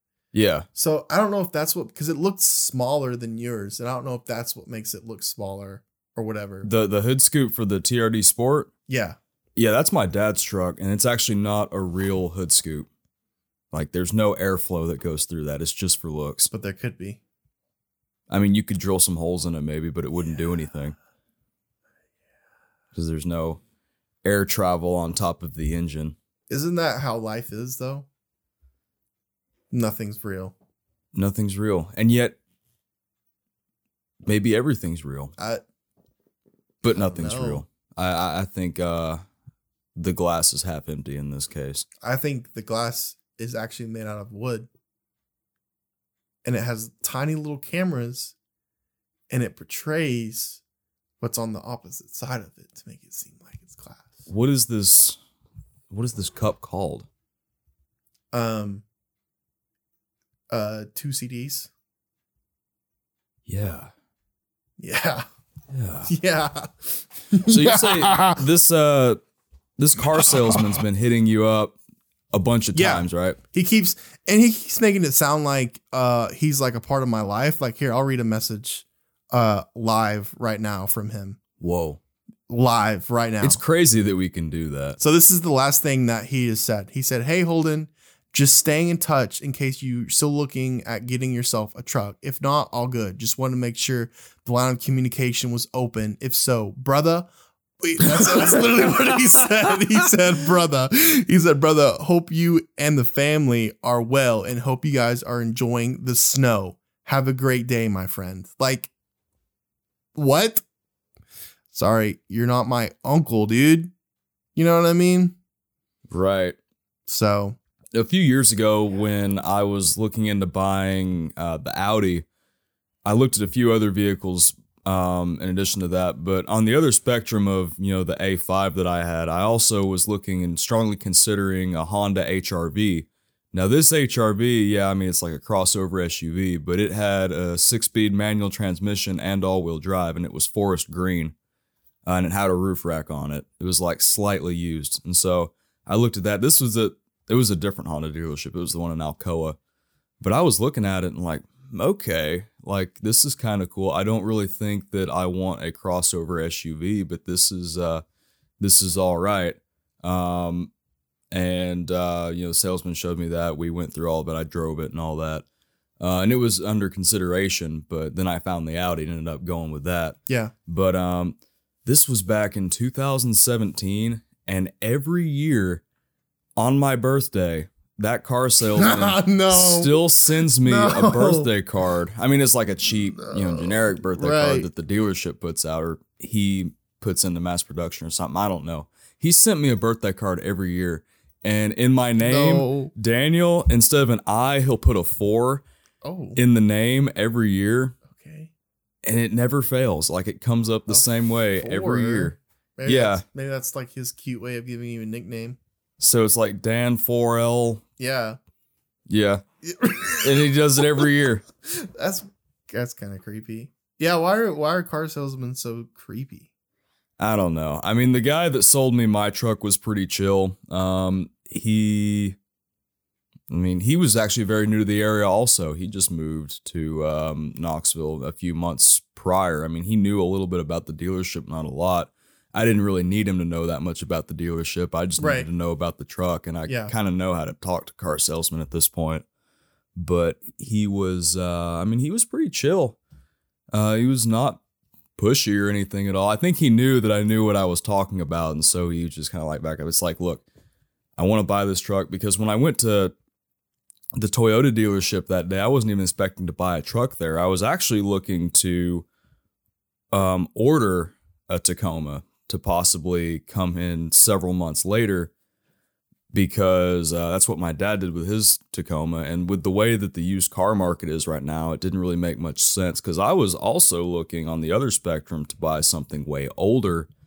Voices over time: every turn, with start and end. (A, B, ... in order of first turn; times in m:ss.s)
0:00.3-0:00.7 A
0:00.8-0:06.7 B
0:06.6-0:08.7 A
0:08.9-0:09.2 B
0:09.6-0:12.9 A
0:13.7-0:16.5 A
0:16.5-0:17.2 B
0:18.3-0:21.0 A
0:23.0-0:23.6 A
0:24.2-0:26.2 A
0:26.5-0:28.1 B
0:29.7-0:30.5 B
0:31.1-0:32.4 A
0:34.2-0:35.3 A
0:35.4-0:35.6 B
0:36.8-0:39.2 A
0:36.8-0:37.6 B
0:40.0-0:41.9 A
0:42.0-0:44.7 B
0:46.4-0:48.4 B
0:49.3-0:50.6 B
0:51.2-0:54.3 B
0:54.3-0:55.2 A
0:55.9-0:57.1 A
0:58.3-0:58.8 B
1:00.5-1:01.7 B
1:03.5-1:03.9 A
1:04.8-1:05.2 B
1:05.7-1:06.1 A
1:06.1-1:08.4 B
1:07.5-1:09.2 A
1:09.8-1:11.8 A
1:10.2-1:10.8 B
1:12.3-1:13.4 A
1:12.7-1:21.4 B
1:21.6-1:22.0 A
1:22.5-1:23.6 B
1:23.4-1:25.0 A
1:25.0-1:37.3 B
1:37.8-1:48.9 B
1:38.3-1:38.9 A
1:50.2-1:50.6 B
1:51.7-1:53.9 B
1:54.6-1:55.4 B
1:56.1-1:56.6 A
1:57.1-1:57.6 B
1:57.9-2:02.3 A
2:03.0-2:21.4 A
2:22.0-2:29.6 A
2:30.2-2:38.0 A
2:38.6-2:40.7 A
2:41.3-2:45.4 A
2:46.0-2:55.8 A
2:50.3-2:50.5 B
2:56.6-3:15.6 A
2:58.8-3:01.5 B
3:03.1-3:04.7 B
3:12.2-3:12.9 B
3:16.0-3:16.4 B
3:16.4-3:18.0 A
3:18.1-3:18.5 B
3:19.0-3:23.2 A
3:20.9-3:25.6 B
3:26.0-3:27.8 A
3:28.0-3:28.4 B
3:29.1-3:29.4 A
3:29.6-3:30.8 B
3:30.2-3:31.4 A
3:31.6-3:36.5 B
3:37.2-3:42.4 A
3:43.5-3:59.2 A
3:55.2-3:55.5 B
3:56.7-3:56.9 B
4:00.0-4:03.0 A
4:03.7-4:04.6 A
4:05.2-4:10.4 A
4:11.2-4:13.2 A
4:14.2-4:19.1 A
4:20.1-4:25.3 A
4:26.3-4:37.1 A